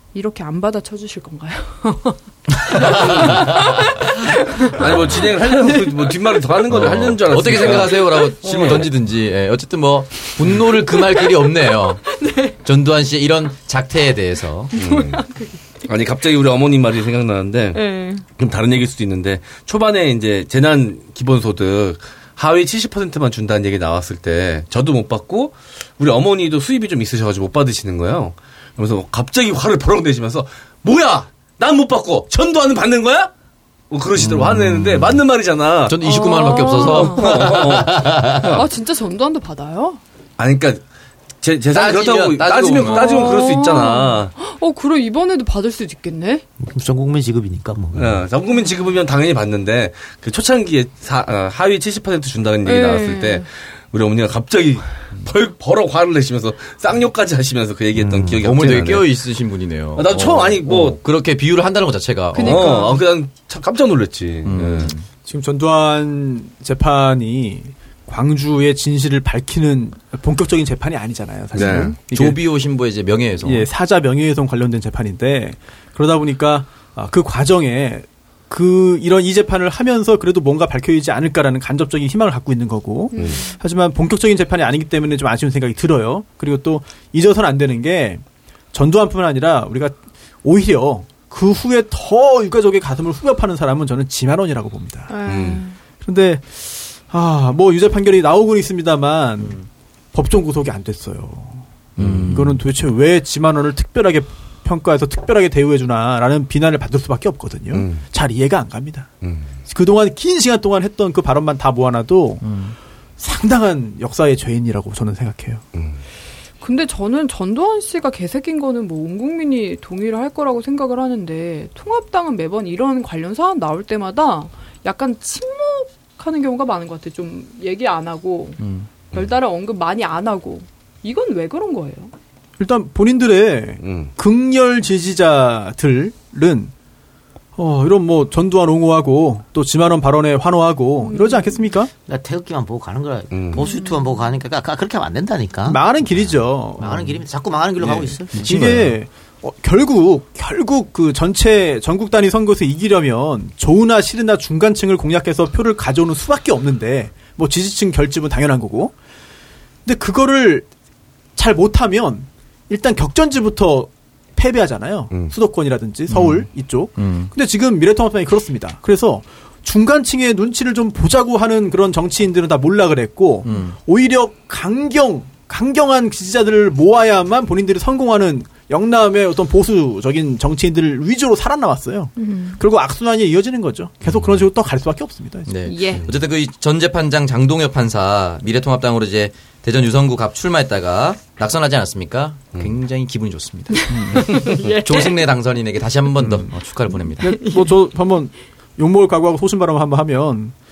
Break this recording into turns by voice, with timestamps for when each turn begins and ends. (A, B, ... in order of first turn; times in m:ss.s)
0:00.1-0:04.8 A
0:02.7-0:03.7 B
0:04.8-0:08.9 C
0:05.6-0:06.0 A
0:06.7-0:14.7 B
0:11.0-0:11.3 A
0:12.1-0:12.5 A
0:14.8-0:15.2 C
0:14.8-0:15.6 A
0:15.8-0:33.3 C
0:17.7-0:18.2 A
0:33.9-0:36.0 C
0:34.2-0:35.2 B
0:35.8-0:38.6 B
0:36.0-0:37.3 A
0:36.7-0:38.6 C
0:38.5-0:40.0 A
0:40.4-0:40.8 C
0:41.4-0:44.3 C
0:41.7-0:43.4 B
0:42.7-0:46.4 A
0:46.6-0:48.2 D
0:47.9-0:59.0 C
0:48.5-0:48.8 A
0:52.6-0:53.4 A
0:58.0-1:02.8 B
1:00.0-1:01.0 C
1:02.3-1:03.0 A
1:02.4-1:04.9 C
1:04.4-1:05.0 B
1:05.2-1:12.4 E
1:11.5-1:12.0 C
1:11.6-1:13.7 B
1:13.4-1:35.1 E
1:23.1-1:23.6 A
1:23.2-1:23.4 C
1:35.1-1:35.8 A
1:35.2-1:35.6 C
1:36.0-1:39.6 E
1:40.1-1:41.6 E
1:42.0-1:42.6 B
1:42.0-1:42.3 C
1:42.2-1:49.1 E
1:47.7-1:48.0 C
1:49.2-1:49.5 C
1:49.6-1:52.5 E
1:52.4-1:52.8 B
1:53.2-1:55.6 E
1:55.7-1:56.0 C
1:56.6-2:08.6 A
2:08.6-2:08.9 B
2:09.1-2:12.1 A
2:12.6-2:16.7 E
2:13.8-2:14.1 C
2:17.6-2:21.9 E
2:21.0-2:21.7 A
2:22.0-2:28.8 D
2:23.3-2:23.7 C
2:23.5-2:24.3 A
2:25.6-2:27.2 E
2:27.8-2:38.9 E
2:28.3-2:28.9 B
2:39.8-2:40.7 E
2:41.4-3:05.5 E
2:46.1-2:47.3 B
2:53.4-2:53.7 B
3:02.2-3:02.6 A
3:05.4-3:17.3 B
3:05.6-3:06.0 A
3:14.0-3:15.2 A
3:16.2-3:16.5 E
3:17.2-3:20.5 E
3:17.3-3:17.7 A